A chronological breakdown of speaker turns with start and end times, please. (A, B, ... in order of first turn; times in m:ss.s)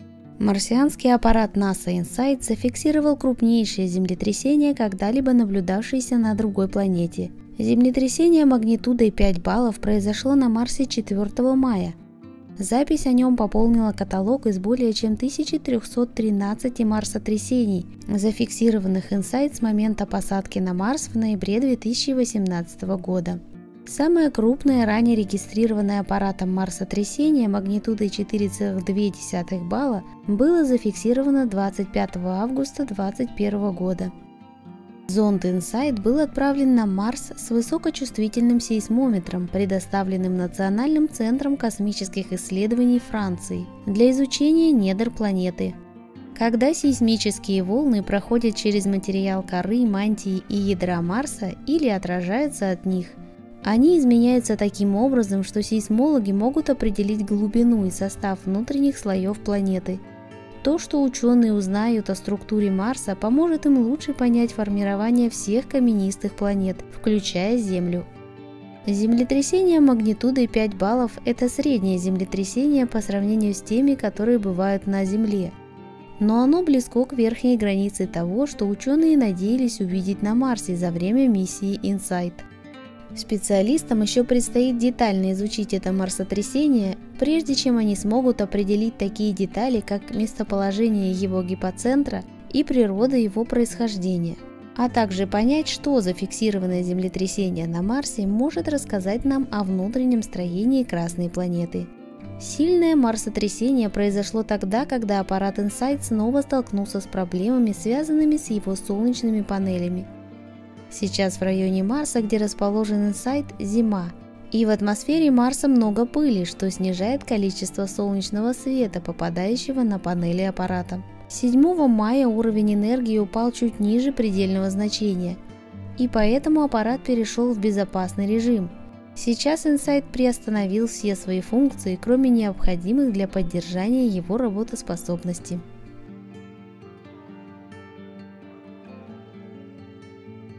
0:00.4-0:12.0 A
0:12.6-0:34.1 A
0:35.1-0:45.8 A
0:46.3-1:00.0 A
1:00.6-1:08.0 A
1:08.8-1:15.5 A
1:16.2-1:22.4 A
1:23.1-1:50.1 A
1:50.9-2:05.4 A
2:06.0-2:15.6 A